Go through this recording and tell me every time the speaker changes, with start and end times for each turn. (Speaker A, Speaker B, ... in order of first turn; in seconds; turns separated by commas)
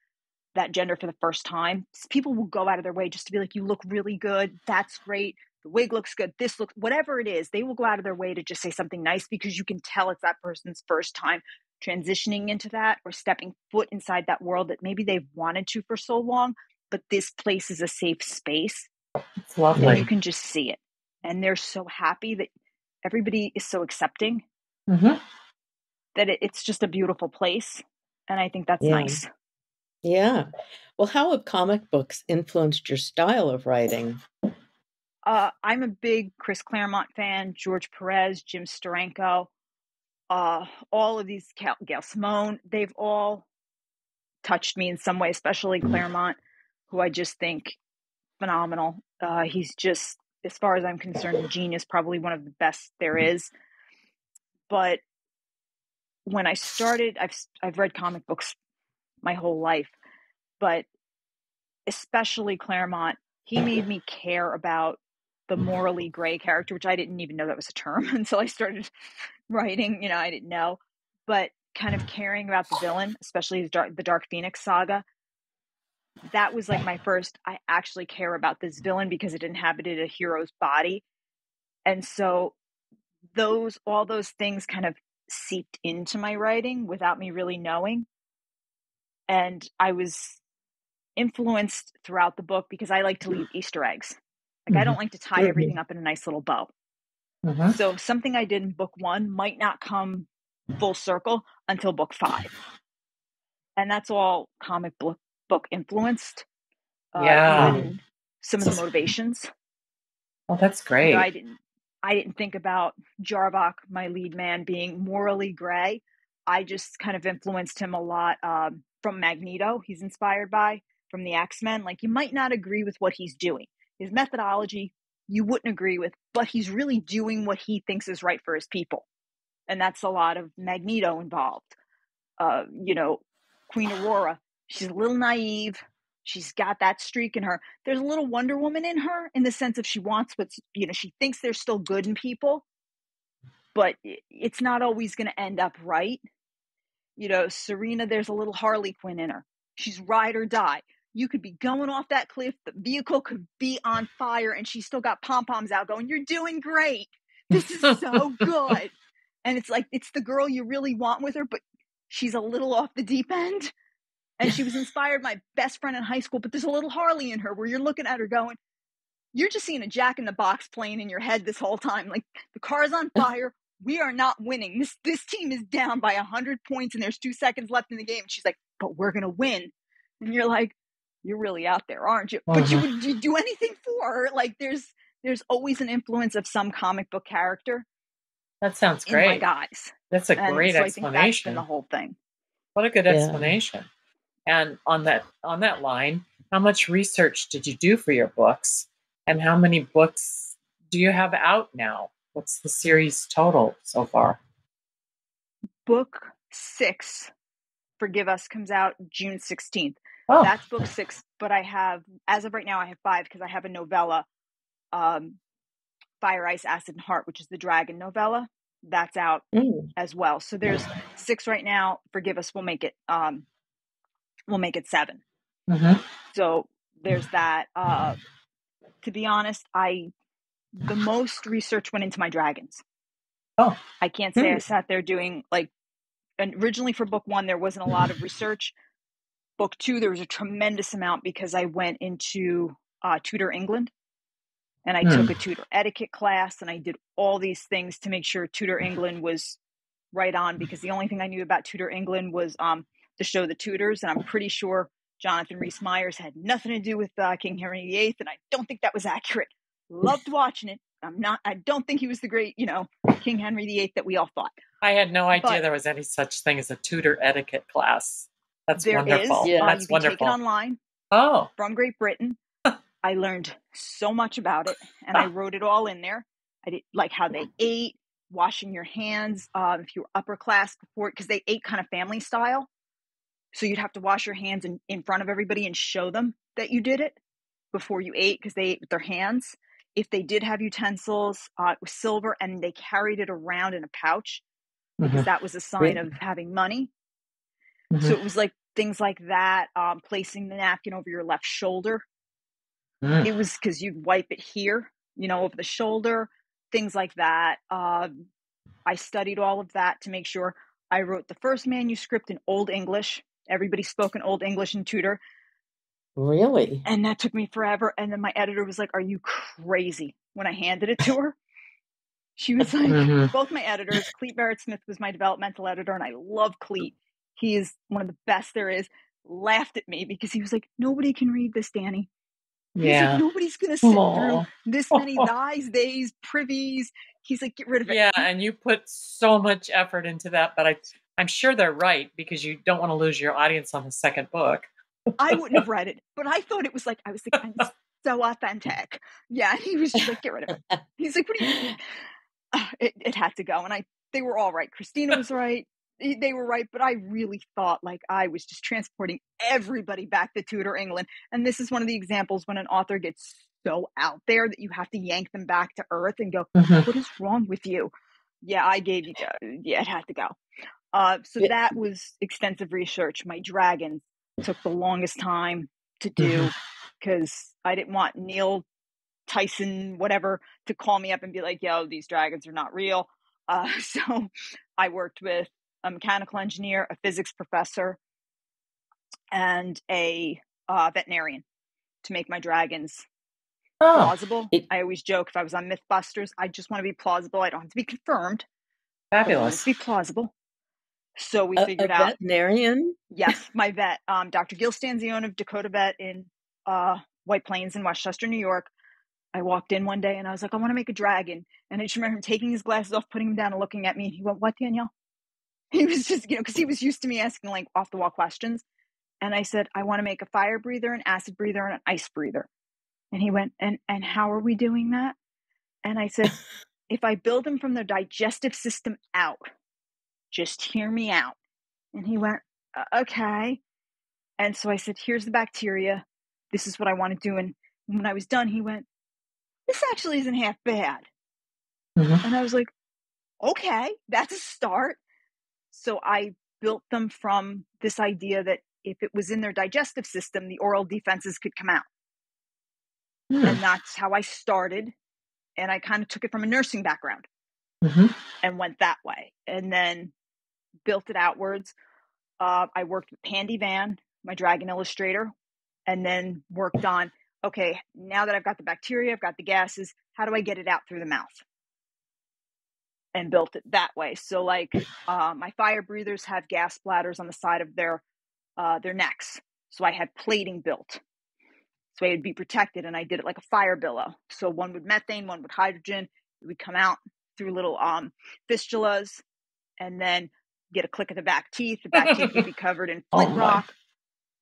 Speaker A: 0.6-18.9, Speaker B: 19.5-20.1, Speaker C: 19.8-20.1, Speaker A: 19.8-22.5, Speaker A: 23.0-24.4, Speaker B: 24.9-25.2, Speaker A: 26.1-29.3, Speaker C: 28.8-29.2, Speaker C: 30.0-34.2, Speaker A: 35.3-39.5, Speaker A: 40.3-43.5, Speaker A: 44.4-46.4, Speaker A: 46.9-47.8, Speaker A: 48.4-53.5, Speaker A: 54.7-55.0, Speaker A: 56.3-58.5, Speaker A: 59.2-59.9, Speaker A: 60.6-60.9, Speaker A: 61.9-68.9, Speaker A: 69.5-75.0, Speaker A: 76.3-81.0, Speaker A: 81.9-82.6, Speaker A: 83.3-88.1, Speaker A: 89.3-90.4, Speaker A: 91.2-96.7, Speaker C: 94.7-95.7, Speaker B: 97.5-97.8, Speaker A: 97.7-102.5, Speaker A: 103.8-106.5, Speaker A: 107.1-109.5, Speaker B: 107.2-107.8, Speaker C: 107.5-107.9, Speaker B: 110.5-111.3, Speaker A: 111.0-129.1, Speaker A: 129.7-131.8, Speaker A: 132.4-142.7, Speaker A: 143.8-146.2, Speaker A: 147.2-158.9, Speaker A: 159.4-163.7, Speaker A: 164.4-168.6, Speaker A: 169.3-187.9, Speaker B: 182.5-182.8, Speaker B: 188.6-189.5, Speaker A: 189.1-192.2, Speaker B: 190.1-191.6, Speaker B: 192.8-193.9, Speaker C: 193.1-193.6, Speaker B: 194.5-204.4, Speaker A: 205.9-207.3, Speaker A: 208.0-214.3, Speaker B: 210.3-210.5, Speaker A: 214.9-215.4, Speaker A: 216.2-219.4, Speaker C: 219.5-219.9, Speaker A: 220.0-223.5, Speaker A: 224.5-225.2, Speaker B: 225.7-226.0, Speaker A: 226.3-228.2, Speaker A: 229.0-230.1, Speaker A: 230.8-232.8, Speaker A: 234.0-235.7, Speaker C: 234.4-234.6, Speaker A: 236.4-238.8, Speaker A: 239.6-243.9, Speaker A: 244.8-249.6, Speaker B: 245.1-245.3, Speaker A: 250.1-264.6, Speaker B: 264.8-270.4, Speaker A: 268.8-270.8, Speaker C: 269.4-269.8, Speaker B: 271.1-271.5, Speaker A: 271.6-272.4, Speaker A: 273.0-282.7, Speaker A: 283.5-287.2, Speaker A: 287.7-294.4, Speaker B: 295.0-295.3, Speaker A: 295.1-296.9, Speaker A: 298.0-302.1, Speaker B: 303.0-303.3, Speaker A: 303.2-308.1, Speaker A: 308.9-315.2, Speaker C: 316.2-316.9, Speaker A: 316.9-321.4, Speaker A: 322.4-332.1, Speaker B: 322.9-323.3, Speaker B: 332.8-333.2, Speaker A: 332.8-338.3, Speaker B: 333.8-335.3, Speaker B: 337.9-344.7, Speaker A: 345.2-351.8, Speaker A: 352.5-367.9, Speaker B: 366.6-366.9, Speaker A: 368.4-370.4, Speaker A: 370.9-378.7, Speaker A: 379.3-388.0, Speaker A: 389.3-391.4, Speaker A: 392.0-393.1, Speaker B: 393.8-394.1, Speaker A: 393.9-398.4, Speaker B: 399.1-399.6, Speaker A: 399.3-400.3, Speaker A: 401.2-402.1, Speaker C: 401.6-403.0, Speaker A: 403.1-408.7, Speaker A: 409.3-414.9, Speaker A: 415.7-418.6, Speaker A: 419.2-422.5, Speaker A: 423.1-425.2, Speaker A: 425.8-426.4, Speaker A: 426.9-429.4, Speaker A: 430.3-431.4, Speaker A: 431.9-433.6, Speaker A: 434.4-438.9, Speaker A: 439.7-441.1, Speaker B: 442.0-442.2, Speaker A: 442.2-442.7, Speaker A: 443.4-445.0, Speaker A: 445.7-451.9, Speaker B: 453.3-453.6, Speaker A: 453.4-454.9, Speaker A: 455.6-457.3, Speaker B: 457.8-458.2, Speaker A: 458.4-460.1, Speaker A: 460.9-461.7, Speaker A: 462.4-465.3, Speaker A: 465.9-471.4, Speaker A: 473.1-478.0, Speaker A: 478.6-481.0, Speaker A: 481.9-489.2, Speaker A: 489.8-493.7, Speaker C: 493.2-493.5